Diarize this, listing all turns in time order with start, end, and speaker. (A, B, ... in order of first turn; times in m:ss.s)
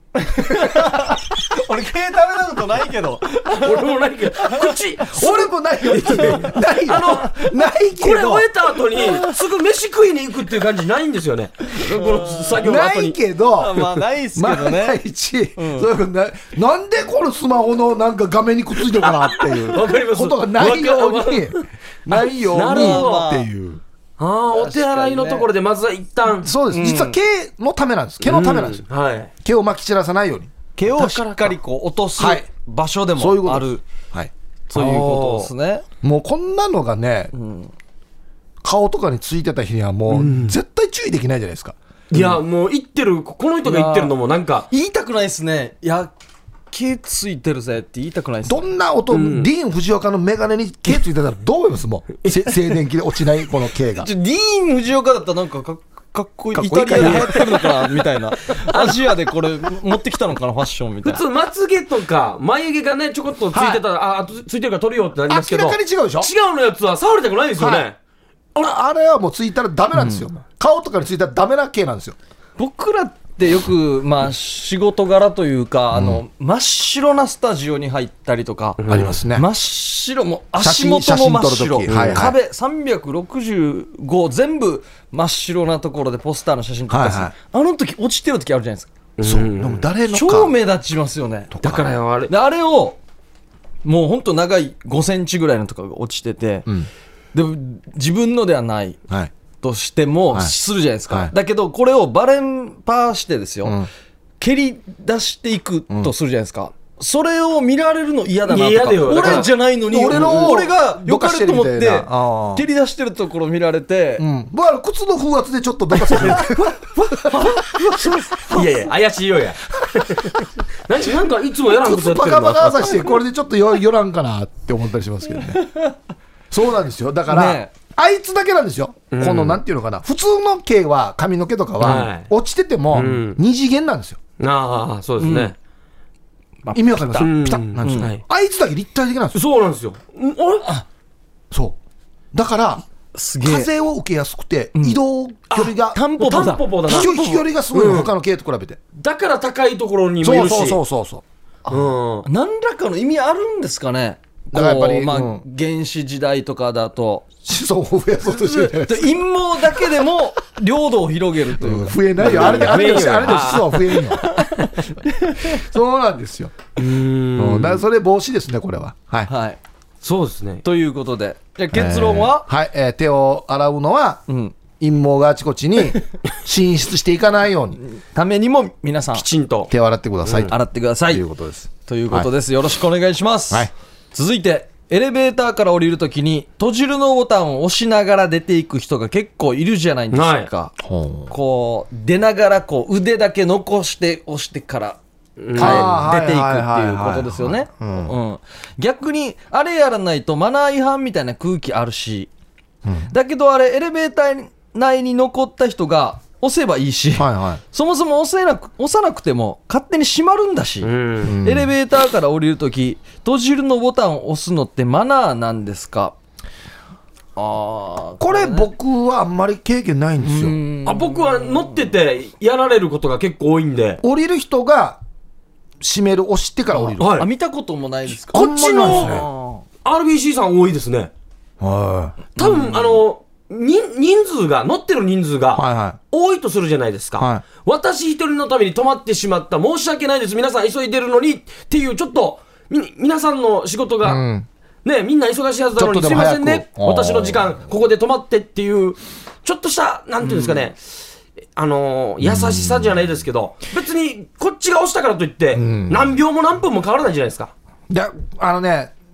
0:00.2-0:03.9 A
0:03.5-0:13.2 B
0:05.1-0:08.5 C
0:11.8-0:12.5 A
0:12.6-0:13.8 C
0:13.6-0:15.0 A
0:14.4-0:23.8 C
0:15.6-0:15.9 A
0:19.1-0:23.2 B
0:22.6-0:23.5 A
0:24.2-0:26.5 B
0:24.5-0:25.5 A
0:26.4-0:28.8 C
0:26.7-0:27.2 A
0:28.2-0:29.3 B
0:29.4-0:31.2 C
0:30.8-0:33.8 A
0:31.0-0:31.4 B
0:32.2-0:32.4 C
0:33.2-0:35.3 C
0:34.7-0:35.8 A
0:35.1-0:35.4 B
0:36.0-0:37.3 C
0:37.3-0:37.7 A
0:38.6-0:42.3 C
0:40.1-0:40.5 B
0:42.1-0:44.7 B
0:43.6-0:44.1 A
0:44.7-0:46.1 A
0:46.7-0:48.6 A
0:48.4-0:54.1 C
0:49.1-0:49.5 B
0:54.0-1:01.2 A
0:56.5-0:57.6 C
0:57.0-0:57.2 B
0:58.7-0:59.0 B
1:01.0-1:08.0 B
1:03.5-1:03.8 C
1:05.3-1:06.3 C
1:07.6-1:07.9 C
1:08.6-1:12.2 C
1:09.9-1:10.2 A
1:12.6-1:28.9 A
1:15.9-1:16.2 C
1:18.8-1:19.2 B
1:18.9-1:19.5 C
1:20.6-1:22.4 C
1:21.9-1:22.3 B
1:26.9-1:27.3 C
1:29.2-1:29.8 B
1:29.2-1:30.6 C
1:30.1-1:31.6 A
1:31.5-1:31.9 C
1:31.6-1:32.3 B
1:32.3-1:33.0 A
1:33.8-1:36.7 A
1:37.3-1:39.0 A
1:39.6-1:43.8 A
1:43.6-1:43.9 C
1:44.4-1:54.2 A
1:48.5-1:50.6 B
1:49.2-1:52.6 C
1:54.2-1:57.4 C
1:56.0-1:58.8 A
1:58.5-2:03.0 B
2:01.7-2:05.6 C
2:05.6-2:06.0 A
2:06.5-2:14.2 C
2:07.3-2:07.7 A
2:09.1-2:09.6 B
2:11.8-2:12.3 B
2:12.9-2:13.4 B
2:14.4-2:15.5 B
2:15.2-2:15.5 A
2:16.6-2:17.3 A
2:16.7-2:19.4 C
2:17.1-2:18.2 B
2:17.8-2:18.1 A
2:19.3-2:20.7 B
2:21.5-2:21.8 C
2:22.3-2:22.8 C
2:23.1-2:23.7 A
2:23.4-2:26.0 C
2:24.7-2:25.0 A
2:25.5-2:27.1 B
2:25.9-2:27.4 A
2:26.9-2:28.8 C
2:27.7-2:28.1 B
2:29.0-2:30.8 B
2:30.2-2:31.2 C
2:31.7-2:37.3 A
2:31.7-2:32.2 B
2:34.5-2:35.4 C
2:37.4-2:39.2 C
2:38.4-2:43.3 A
2:41.6-2:44.2 C
2:42.2-2:44.1 B
2:44.1-2:45.6 A
2:45.4-2:46.7 C
2:46.8-2:47.8 B
2:47.4-2:49.3 C
2:49.3-2:49.6 A
2:50.0-2:50.6 B
2:50.6-2:52.5 A
2:51.7-2:54.2 C
2:54.3-2:54.5 A
2:54.8-2:57.8 C
2:57.8-2:59.2 A
2:59.1-2:59.7 B
2:59.7-3:02.3 C
3:00.2-3:00.5 B
3:00.5-3:01.2 A
3:01.8-3:10.8 A
3:10.1-3:10.5 B
3:10.8-3:11.3 C
3:11.3-3:15.0 A
3:15.4-3:16.0 B
3:15.5-3:22.3 A
3:15.6-3:18.1 C
3:22.8-3:23.1 C
3:23.1-3:30.9 A
3:27.2-3:27.6 C
3:30.8-3:31.4 B
3:31.2-3:31.7 C
3:31.4-3:36.1 A
3:37.4-3:38.7 A
3:38.2-3:40.6 C
3:40.2-3:41.7 A
3:40.8-3:44.0 B
3:44.0-3:45.0 C
3:45.8-3:47.1 C
3:46.7-3:49.6 A
3:47.0-3:47.3 B
3:48.3-3:49.3 C
3:48.3-3:49.2 B
3:49.8-3:51.1 B
3:51.6-3:52.6 C
3:52.4-4:04.2 B
3:55.5-3:56.0 C
3:57.2-3:57.4 C
4:04.0-4:04.5 C
4:04.8-4:10.8 B
4:05.8-4:07.5 C
4:11.6-4:17.5 B
4:12.2-4:13.1 C
4:15.5-4:16.2 C
4:17.9-4:18.9 C